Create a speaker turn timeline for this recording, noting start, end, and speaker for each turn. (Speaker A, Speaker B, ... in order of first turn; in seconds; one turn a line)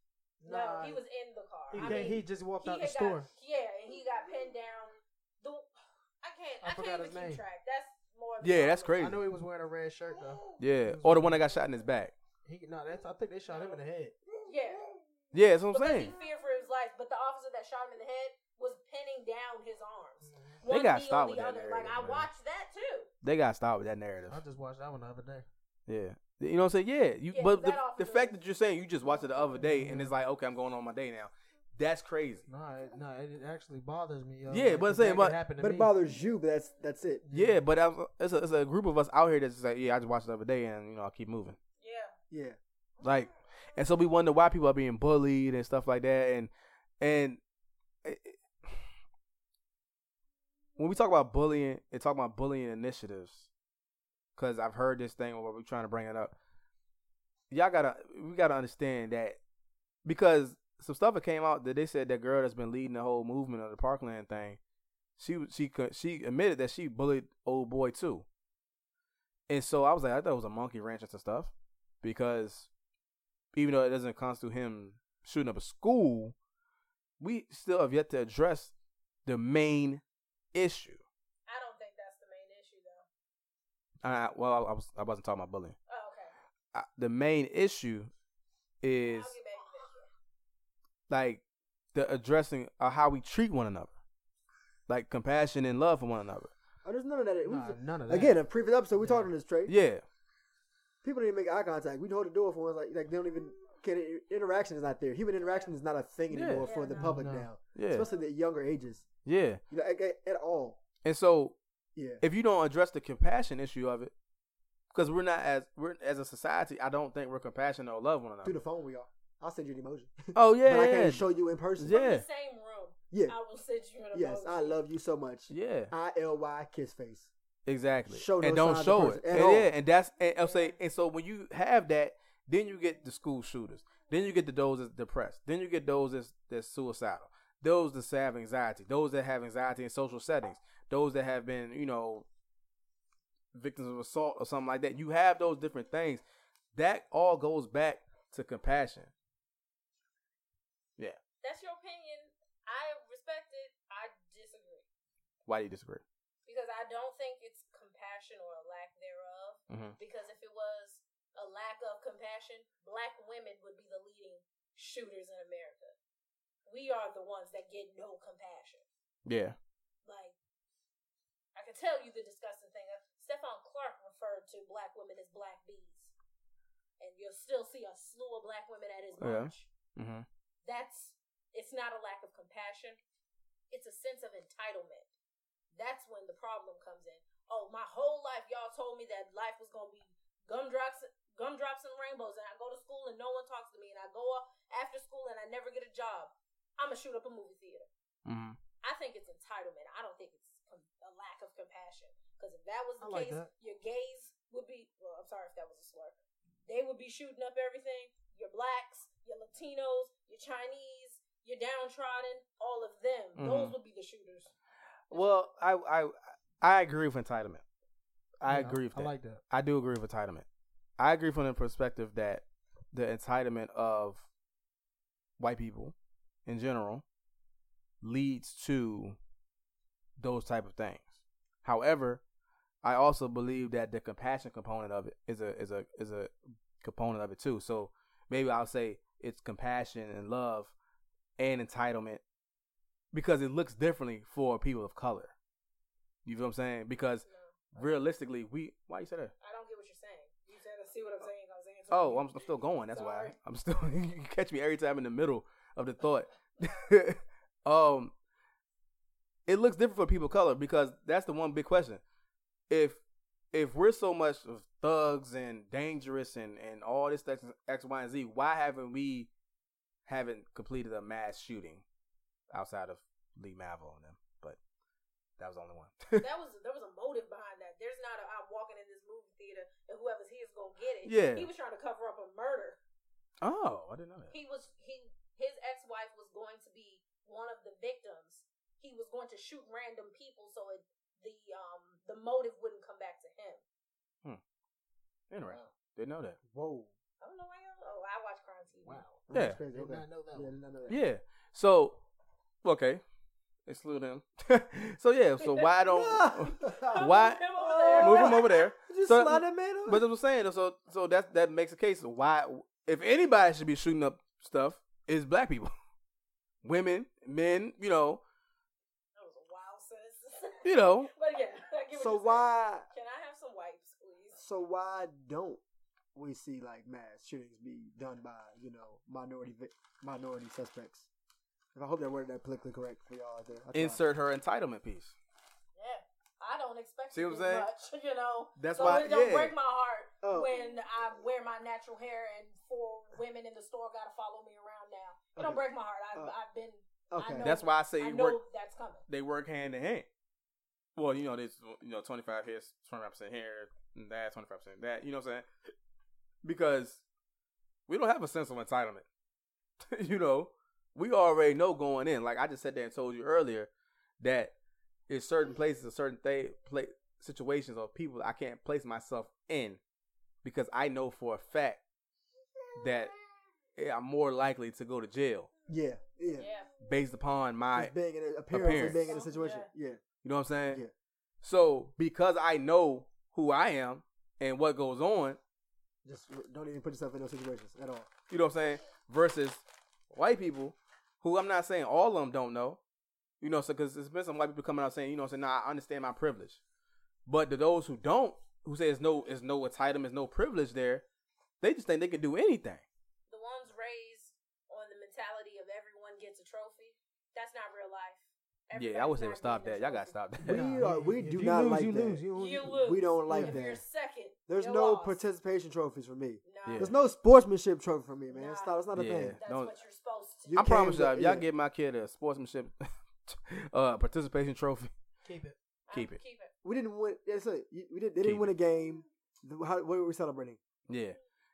Speaker A: 0.4-1.0
Speaker B: 0.5-9.0
Speaker A: 1.7-3.3
Speaker A: 6.6-7.4
Speaker C: 8.4-9.2
Speaker A: 9.0-11.4
Speaker C: 10.6-12.1
Speaker A: 12.4-14.2
Speaker B: 13.5-13.8
Speaker B: 14.4-14.9
Speaker C: 15.3-16.1
Speaker B: 15.7-23.1
Speaker A: 20.2-20.6
Speaker C: 20.6-22.3
Speaker C: 23.2-24.4
Speaker A: 24.3-25.5
Speaker C: 25.9-32.5
Speaker B: 27.3-28.4
Speaker A: 29.6-30.1
Speaker A: 32.5-35.9
Speaker C: 34.5-35.4
Speaker D: 35.6-37.2
Speaker A: 37.2-37.6
Speaker C: 37.3-41.6
Speaker B: 41.8-42.1
Speaker D: 42.3-42.6
Speaker C: 43.0-46.5
Speaker C: 47.0-47.4
Speaker C: 48.0-48.9
Speaker C: 50.8-53.5
Speaker C: 54.4-56.3
Speaker C: 57.5-59.4
Speaker C: 60.0-64.6
Speaker C: 65.2-68.2
Speaker C: 69.5-71.5
Speaker C: 72.0-72.7
Speaker C: 73.5-76.3
Speaker C: 77.2-78.7
Speaker C: 79.2-80.0
Speaker C: 80.5-81.0
Speaker B: 81.5-83.0
Speaker C: 84.0-85.8
Speaker B: 85.9-86.3
Speaker C: 86.7-88.1
Speaker C: 88.8-89.3
Speaker B: 89.0-90.1
Speaker C: 91.1-91.4
Speaker C: 91.9-93.9
Speaker C: 94.9-96.5
Speaker D: 96.8-99.7
Speaker A: 97.5-98.3
Speaker A: 99.0-99.3
Speaker C: 99.7-100.0
Speaker D: 101.0-109.1
Speaker C: 106.3-106.7
Speaker B: 106.7-107.1
Speaker A: 106.9-107.5
Speaker C: 107.7-108.0
Speaker C: 109.2-109.6
Speaker D: 109.7-110.8
Speaker C: 111.0-111.6
Speaker D: 112.0-112.2
Speaker C: 112.2-114.1
Speaker C: 114.9-118.5
Speaker D: 118.4-122.0
Speaker C: 120.3-121.2
Speaker C: 121.8-122.2
Speaker B: 121.9-124.8
Speaker D: 124.1-127.3
Speaker C: 125.5-125.9
Speaker C: 127.7-142.2
Speaker D: 128.1-129.7
Speaker B: 130.4-130.7
Speaker C: 143.5-146.2
Speaker C: 146.7-149.1
Speaker B: 151.4-154.9
Speaker C: 155.4-156.0
Speaker B: 156.4-165.9
Speaker C: 159.7-160.0
Speaker B: 166.7-168.8
Speaker C: 169.2-169.6
Speaker B: 170.0-170.3
Speaker B: 171.5-176.1
Speaker B: 177.0-179.7
Speaker C: 179.2-180.2
Speaker B: 180.6-183.0
Speaker B: 183.7-185.1
Speaker B: 185.7-197.9
Speaker C: 198.2-198.6
Speaker B: 198.8-214.5
Speaker A: 203.0-203.5
Speaker C: 213.3-213.8
Speaker B: 215.1-215.4
Speaker C: 215.1-217.6
Speaker C: 218.4-220.4
Speaker A: 218.5-219.4
Speaker C: 221.0-224.3
Speaker C: 225.4-225.9
Speaker C: 226.4-227.0
Speaker C: 228.0-229.2
Speaker C: 230.2-232.2
Speaker C: 232.8-240.7
Speaker C: 241.4-242.2
Speaker C: 243.1-245.3
Speaker C: 246.2-249.3
Speaker B: 247.2-247.5
Speaker B: 249.4-253.3
Speaker C: 251.9-258.1
Speaker C: 259.5-262.0
Speaker C: 262.7-263.0
Speaker C: 263.5-269.3
Speaker C: 270.1-271.8
Speaker C: 272.5-274.6
Speaker C: 275.4-276.2
Speaker B: 276.2-282.8
Speaker C: 281.1-281.5
Speaker C: 283.4-284.3
Speaker B: 284.3-293.6
Speaker C: 295.3-296.4
Speaker D: 296.5-296.9
Speaker B: 297.2-299.0
Speaker A: 298.8-300.5
Speaker D: 299.3-301.0
Speaker C: 299.3-299.6
Speaker C: 300.9-302.0
Speaker C: 302.6-303.0
Speaker C: 303.7-315.7
Speaker B: 305.4-308.6
Speaker D: 306.1-307.0
Speaker D: 307.6-310.0
Speaker C: 316.6-318.2
Speaker B: 319.2-324.4
Speaker C: 320.6-321.1
Speaker D: 321.9-322.9
Speaker D: 324.4-325.6
Speaker D: 326.1-331.1
Speaker D: 331.7-334.0
Speaker C: 333.7-335.1
Speaker B: 335.8-349.0
Speaker C: 337.1-337.7
Speaker C: 338.6-339.5
Speaker D: 340.2-340.5
Speaker D: 345.4-345.6
Speaker D: 347.1-347.5
Speaker C: 347.4-348.4
Speaker C: 349.1-350.1
Speaker C: 350.9-355.4
Speaker C: 356.4-357.0
Speaker C: 357.9-359.0
Speaker C: 359.8-363.7
Speaker C: 364.2-364.5
Speaker C: 365.1-369.8
Speaker C: 370.4-371.8
Speaker C: 372.7-373.1
Speaker C: 373.8-375.5
Speaker D: 375.7-376.5
Speaker B: 376.4-376.7
Speaker C: 376.8-377.9
Speaker D: 377.7-380.0
Speaker C: 378.5-379.1
Speaker B: 378.6-379.7
Speaker C: 380.2-380.8
Speaker C: 381.4-385.4
Speaker D: 386.0-388.1
Speaker C: 388.3-392.8
Speaker C: 393.4-396.6
Speaker C: 397.3-401.0
Speaker C: 401.6-402.8
Speaker B: 403.3-410.2
Speaker C: 408.7-410.7
Speaker A: 410.4-413.6
Speaker D: 410.4-413.8
Speaker B: 412.3-415.2
Speaker D: 414.5-419.4
Speaker B: 416.4-416.9
Speaker C: 416.6-416.9
Speaker B: 418.3-418.8
Speaker C: 418.9-419.7
Speaker B: 419.4-420.7
Speaker D: 420.5-421.4
Speaker C: 420.5-424.9
Speaker A: 425.2-425.6
Speaker B: 425.9-426.5
Speaker C: 425.9-426.2
Speaker D: 426.6-430.6
Speaker C: 428.2-428.5
Speaker C: 430.9-431.2